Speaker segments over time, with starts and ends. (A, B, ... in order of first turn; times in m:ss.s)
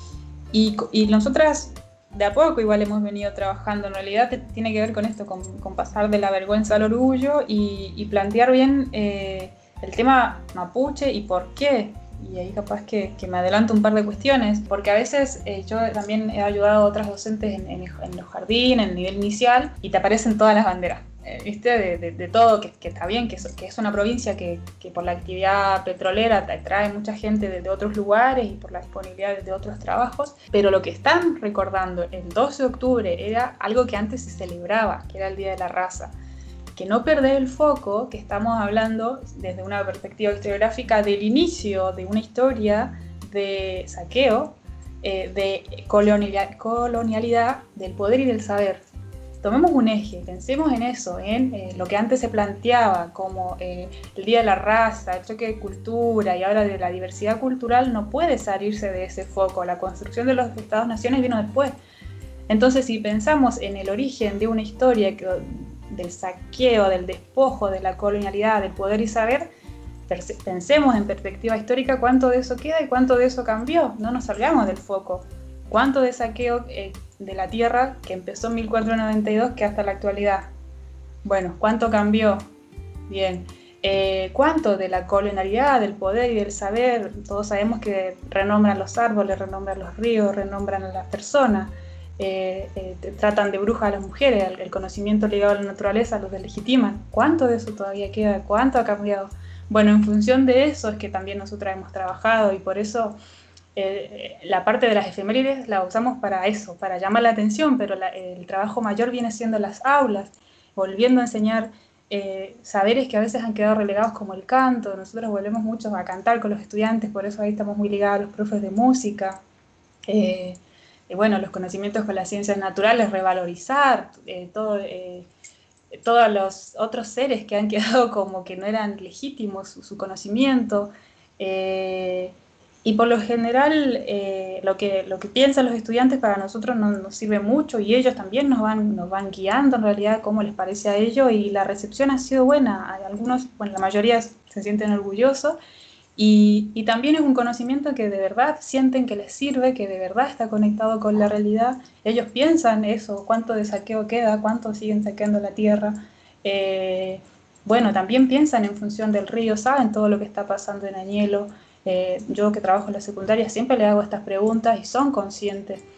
0:00.5-0:36.1 A
0:36.7-0:48.8 A
0:49.4-1:01.7 A
1:02.5-1:09.5 A
1:10.1-1:20.5 A
1:21.2-1:22.4 A
1:23.1-1:43.2 A
1:43.8-1:59.4 A
2:00.1-2:00.6 A
2:01.1-2:05.3 A
2:05.9-2:25.6 A
2:26.2-2:45.8 A